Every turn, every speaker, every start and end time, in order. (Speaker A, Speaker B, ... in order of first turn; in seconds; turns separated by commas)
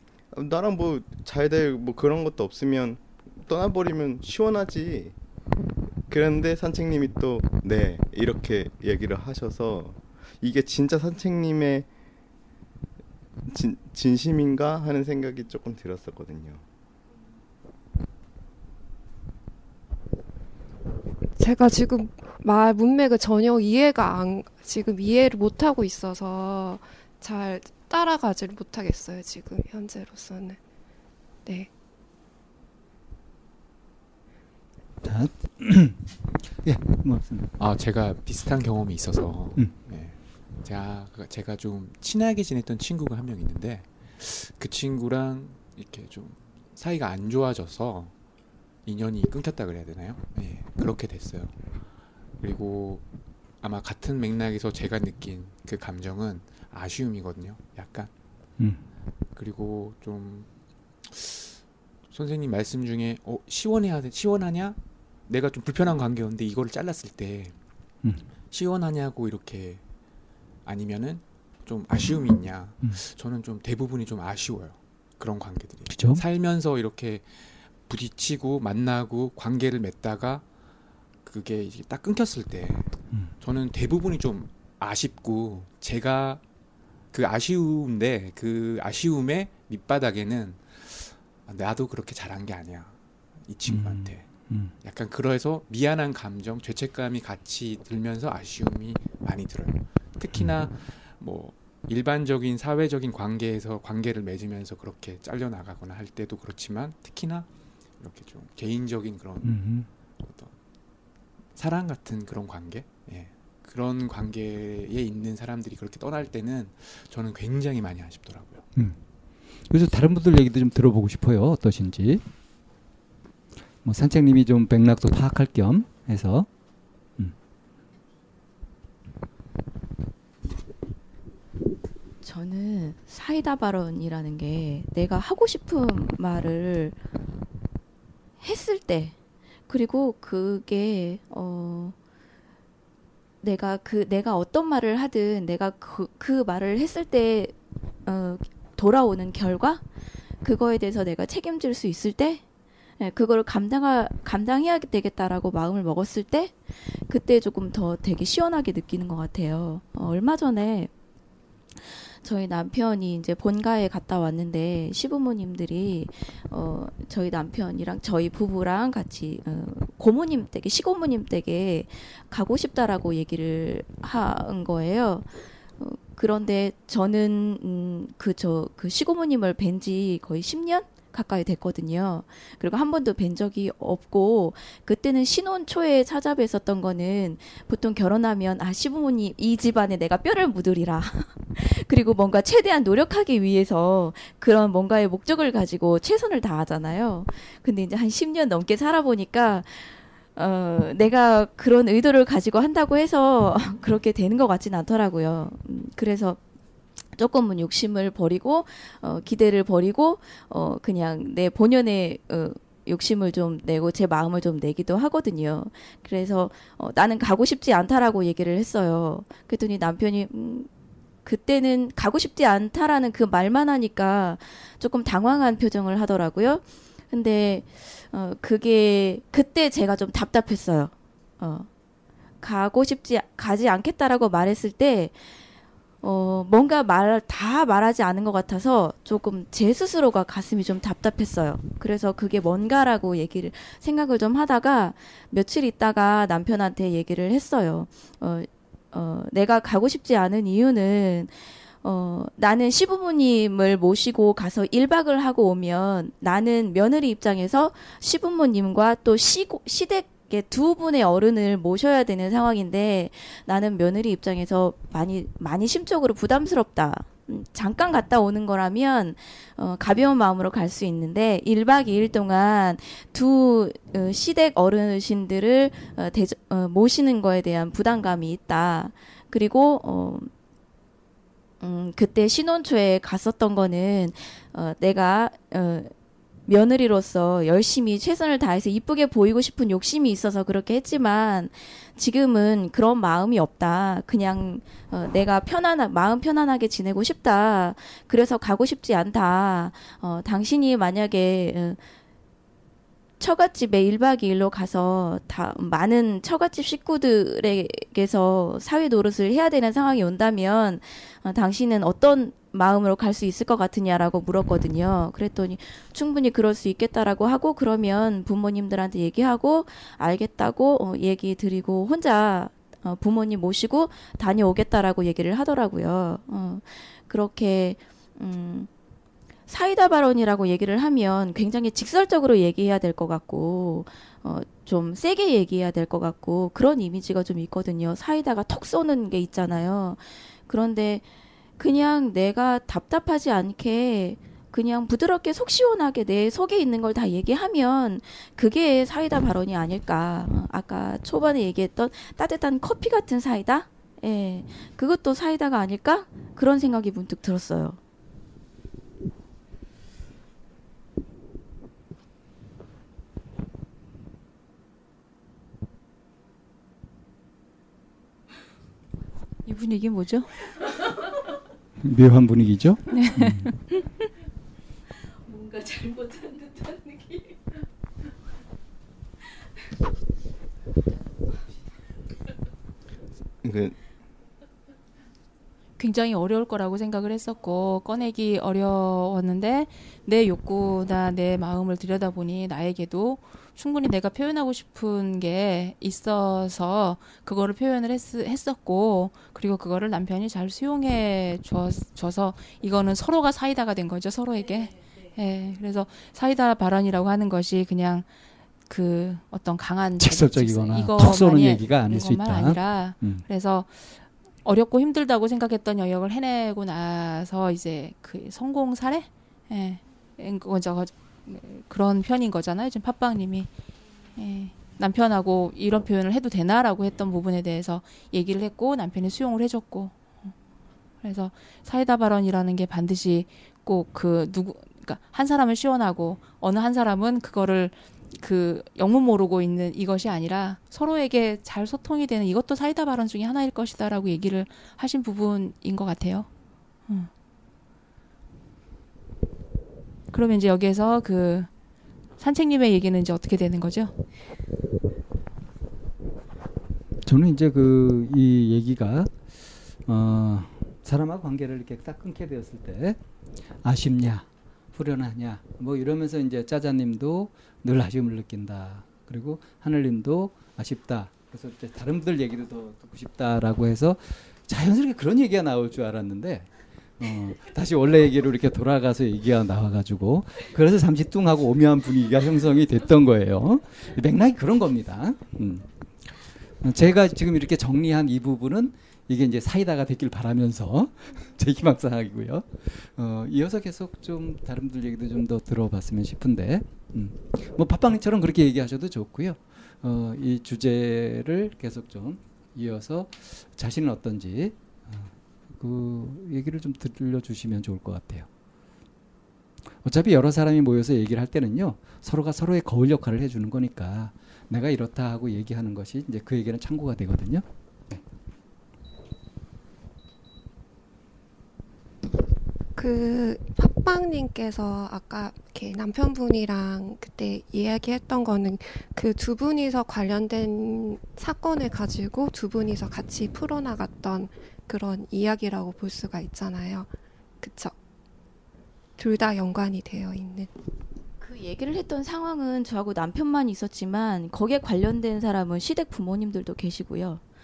Speaker A: 0.3-5.1, Speaker A: 6.1-11.9, Speaker A: 13.5-16.6, Speaker B: 21.4-30.6, Speaker C: 35.0-37.5, Speaker D: 37.6-48.1, Speaker D: 48.8-51.5, Speaker D: 52.4-53.0, Speaker D: 53.6-58.1, Speaker D: 59.4-60.5, Speaker D: 61.0-67.5, Speaker D: 68.5-69.8, Speaker D: 70.6-80.4, Speaker C: 75.9-76.2, Speaker D: 81.2-86.4, Speaker D: 87.1-93.0, Speaker D: 93.5-94.3, Speaker C: 93.7-94.7, Speaker D: 94.8-107.5, Speaker D: 108.0-109.6, Speaker C: 109.4-109.9, Speaker D: 110.2-110.5, Speaker D: 111.5-118.6, Speaker C: 119.7-122.2, Speaker C: 123.8-126.5, Speaker E: 132.2-137.0, Speaker E: 138.4-139.1, Speaker E: 139.7-141.9, Speaker E: 143.4-147.5, Speaker E: 148.1-149.8, Speaker E: 150.4-152.4, Speaker E: 153.0-160.9, Speaker E: 162.2-206.4, Speaker E: 207.1-220.7, Speaker E: 221.2-231.7, Speaker E: 232.4-235.2, Speaker E: 236.0-280.3, Speaker E: 281.6-285.9, Speaker E: 286.5-301.8, Speaker E: 303.2-328.7, Speaker E: 329.5-341.1, Speaker E: 341.6-357.8, Speaker F: 369.4-370.3, Speaker C: 371.8-373.5, Speaker F: 372.9-373.8, Speaker A: 383.4-383.8, Speaker F: 385.8-408.1, Speaker F: 408.7-423.5, Speaker C: 410.0-413.2, Speaker F: 424.2-430.3, Speaker F: 431.0-446.3, Speaker F: 450.1-451.5, Speaker F: 452.2-453.9, Speaker C: 457.0-459.1, Speaker C: 459.9-463.0, Speaker C: 463.6-508.3, Speaker C: 509.8-518.0, Speaker B: 522.8-537.7, Speaker B: 539.0-540.5, Speaker E: 541.2-547.2